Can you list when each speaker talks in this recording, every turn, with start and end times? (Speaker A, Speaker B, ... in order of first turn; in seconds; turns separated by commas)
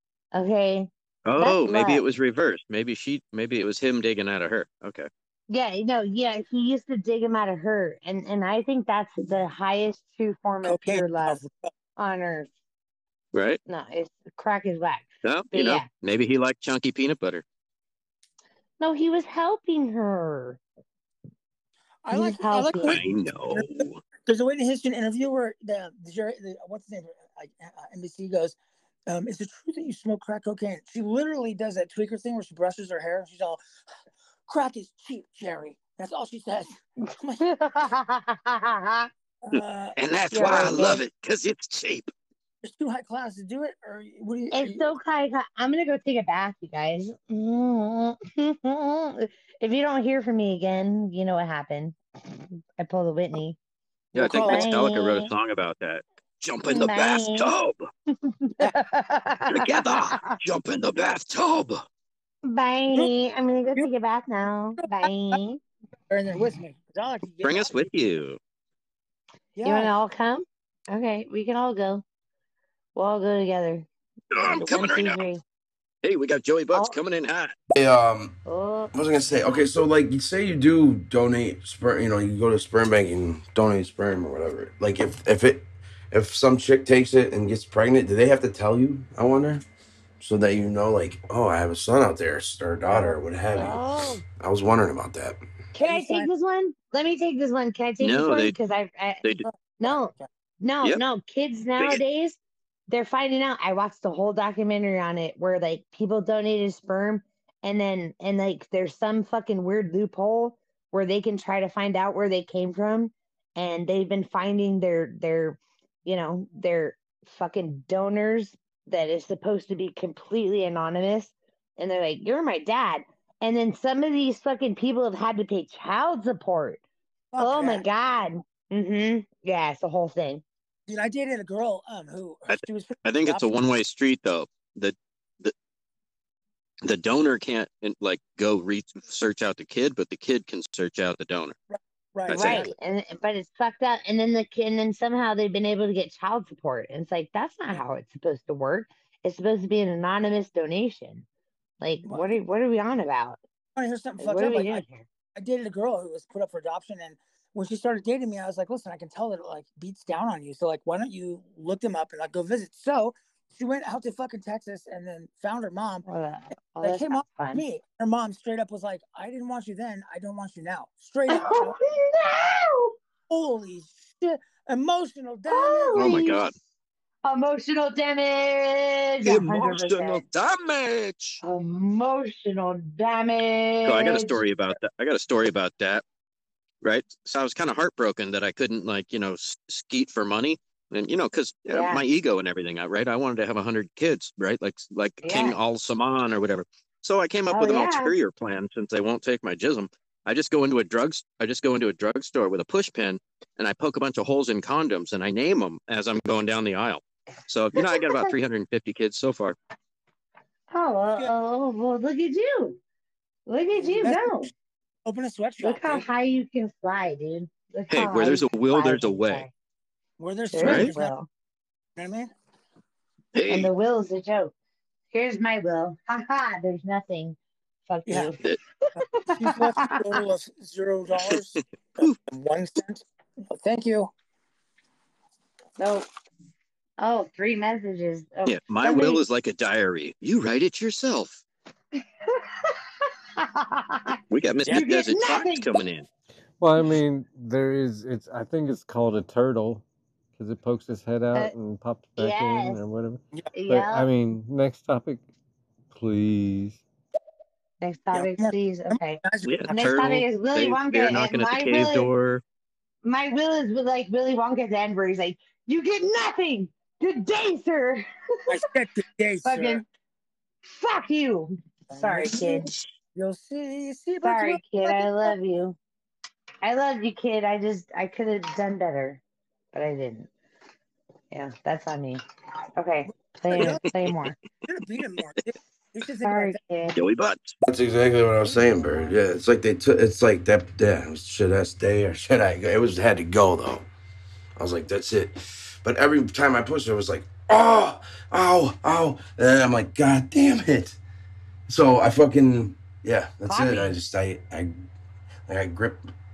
Speaker A: 0.3-2.0, Speaker B: 1.2-5.1, Speaker A: 5.5-11.4, Speaker C: 10.6-11.7, Speaker A: 12.0-12.5, Speaker B: 13.3-13.6, Speaker A: 13.7-15.8, Speaker B: 15.2-17.4, Speaker A: 18.8-20.6, Speaker C: 22.0-28.6, Speaker A: 22.1-23.0, Speaker B: 22.9-24.0, Speaker C: 29.1-33.6, Speaker C: 34.5-37.4, Speaker A: 37.4-39.1, Speaker C: 39.4-41.0, Speaker B: 39.5-42.1, Speaker A: 40.3-41.0, Speaker C: 42.6-44.9, Speaker A: 44.5-52.0, Speaker A: 52.8-53.6, Speaker C: 54.1-54.9, Speaker B: 54.1-57.9, Speaker A: 54.2-55.3, Speaker A: 56.7-57.5, Speaker A: 58.2-60.4, Speaker B: 59.5-61.8, Speaker A: 62.4-65.6, Speaker C: 64.8-65.3, Speaker C: 66.1-67.8, Speaker B: 67.4-68.4, Speaker C: 69.5-69.9, Speaker A: 69.6-72.0, Speaker A: 72.9-75.4, Speaker B: 74.3-75.2, Speaker C: 74.6-75.0, Speaker B: 76.0-77.5, Speaker A: 76.7-77.0, Speaker D: 77.7-78.4, Speaker A: 78.5-78.9, Speaker D: 78.9-89.6, Speaker D: 90.2-95.4, Speaker A: 93.5-94.2, Speaker A: 95.7-99.2, Speaker C: 95.8-96.3, Speaker B: 98.0-98.5, Speaker A: 99.8-126.8, Speaker C: 99.8-100.3, Speaker C: 127.3-127.8, Speaker A: 127.4-130.4, Speaker C: 130.9-133.5, Speaker B: 132.5-135.5, Speaker B: 136.8-141.6, Speaker C: 141.7-142.7, Speaker B: 142.3-142.7, Speaker A: 142.3-151.2, Speaker A: 151.8-153.4, Speaker C: 153.8-154.8, Speaker A: 154.2-155.1, Speaker C: 155.3-166.1, Speaker A: 166.1-167.6, Speaker C: 166.8-171.8, Speaker A: 171.3-172.9, Speaker C: 173.3-176.3, Speaker A: 175.5-176.5, Speaker B: 175.9-176.5, Speaker A: 177.2-180.2, Speaker B: 179.2-181.4, Speaker A: 181.4-184.4, Speaker B: 183.8-186.0, Speaker B: 186.8-209.6, Speaker A: 191.7-192.0, Speaker A: 195.2-195.6, Speaker A: 197.5-198.1, Speaker A: 207.7-208.3, Speaker A: 210.7-212.8, Speaker A: 213.5-214.5, Speaker C: 213.8-214.4, Speaker C: 215.0-216.1, Speaker A: 215.6-219.5, Speaker B: 217.9-219.4, Speaker C: 220.2-221.1, Speaker A: 220.5-221.3, Speaker B: 220.6-220.9, Speaker C: 221.9-222.3, Speaker B: 223.3-223.7, Speaker A: 223.5-224.5, Speaker A: 225.1-228.4, Speaker C: 228.1-228.3, Speaker A: 229.0-230.2, Speaker C: 229.3-234.1, Speaker A: 235.8-236.1, Speaker A: 237.0-239.2, Speaker B: 238.4-241.4, Speaker A: 242.3-242.7, Speaker A: 243.4-244.2, Speaker B: 244.3-246.1, Speaker A: 244.7-245.7, Speaker E: 246.6-249.8, Speaker E: 250.3-255.2, Speaker A: 252.2-252.8, Speaker A: 253.5-254.1, Speaker E: 255.9-256.8, Speaker A: 257.8-262.1, Speaker C: 258.1-259.9, Speaker B: 259.4-262.4, Speaker A: 263.0-268.0, Speaker C: 268.5-269.8, Speaker A: 269.4-269.8, Speaker A: 270.7-272.7, Speaker C: 271.9-275.4, Speaker A: 274.2-275.8, Speaker A: 276.6-279.2, Speaker A: 279.7-280.3, Speaker A: 281.3-282.2, Speaker A: 282.8-284.3, Speaker C: 283.5-283.9, Speaker C: 284.6-286.6, Speaker A: 286.2-287.0, Speaker B: 286.9-287.6, Speaker D: 287.6-293.9, Speaker A: 288.5-289.1, Speaker D: 294.6-301.0, Speaker D: 301.7-304.7, Speaker A: 303.5-303.9, Speaker D: 305.5-306.1